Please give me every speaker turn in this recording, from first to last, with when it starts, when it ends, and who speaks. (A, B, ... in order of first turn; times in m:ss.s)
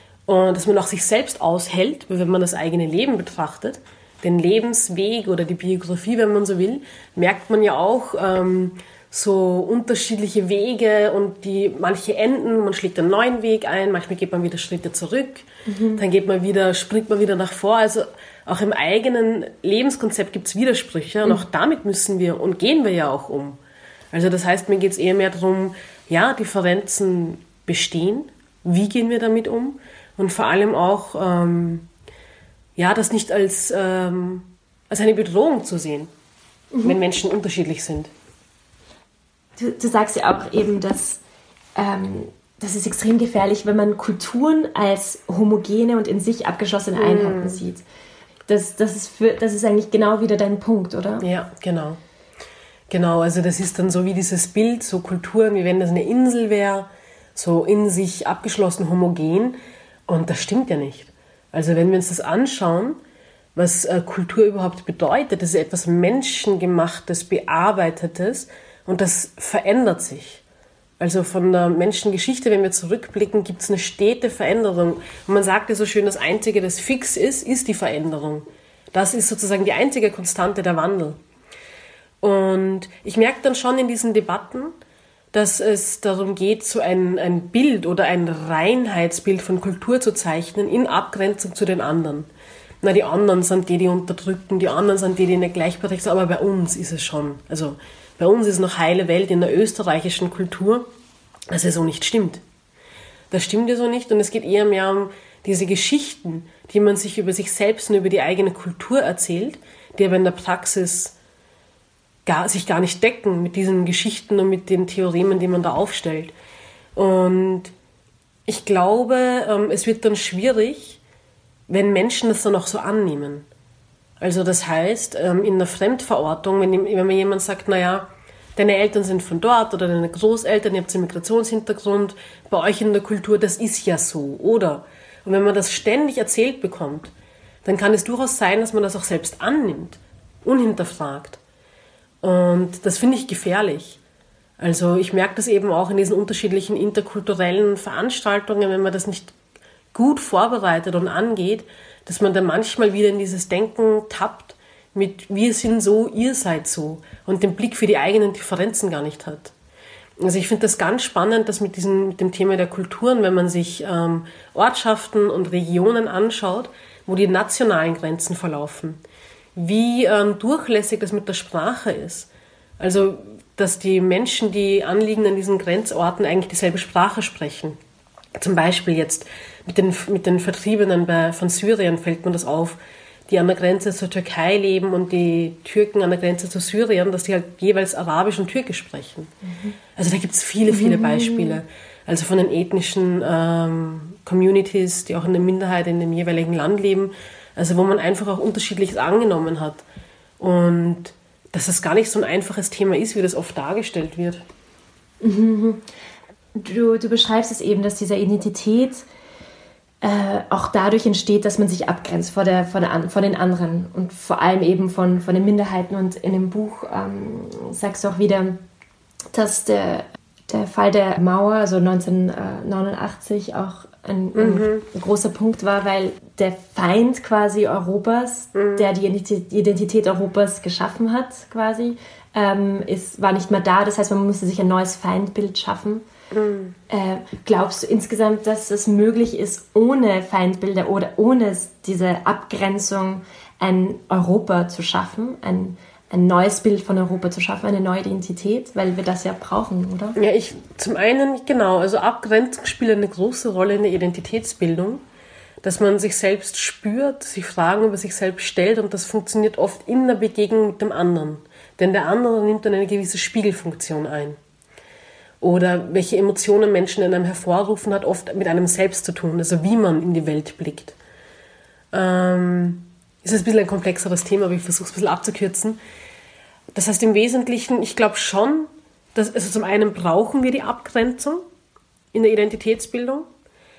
0:00.3-0:23.6 A
0:15.7-0:16.0 B
0:24.1-0:31.9 A
0:32.8-0:36.1 A
0:36.7-0:37.0 B
0:36.8-0:38.1 A
0:39.6-0:41.2 B
0:41.8-0:47.8 B
0:47.0-0:47.6 A
0:48.5-0:51.3 B
0:51.2-0:52.0 A
0:52.9-0:59.6 A
1:00.1-1:03.0 A
1:03.6-1:10.4 A
1:11.0-1:21.2 A
1:22.2-1:24.7 A
1:25.3-1:32.3 A
1:32.8-1:40.9 A
1:41.5-1:42.4 A
1:43.3-1:51.2 A
1:52.3-1:56.3 A
1:57.0-1:57.7 A
1:58.5-2:01.0 A
2:01.7-2:03.5 A
2:04.2-2:17.1 A
2:17.6-2:21.4 A
2:22.2-2:24.0 A
2:24.6-2:29.4 A
2:29.9-2:39.5 A
2:40.2-2:49.0 A
2:49.6-2:57.8 A
2:58.4-3:09.3 A
3:10.0-3:19.8 A
3:10.7-3:11.6 B
3:20.4-3:24.4 A
3:25.2-3:25.9 B
3:26.6-3:29.0 B
3:30.0-3:38.6 B
3:39.3-3:56.1 B
3:44.4-3:44.9 A
3:48.5-3:48.9 A
3:56.3-3:56.8 A
3:56.9-4:10.2 B
4:10.2-4:15.0 A
4:15.6-4:24.4 A
4:25.4-4:31.0 A
4:31.9-4:35.8 A
4:36.7-4:41.4 A
4:42.1-4:43.3 A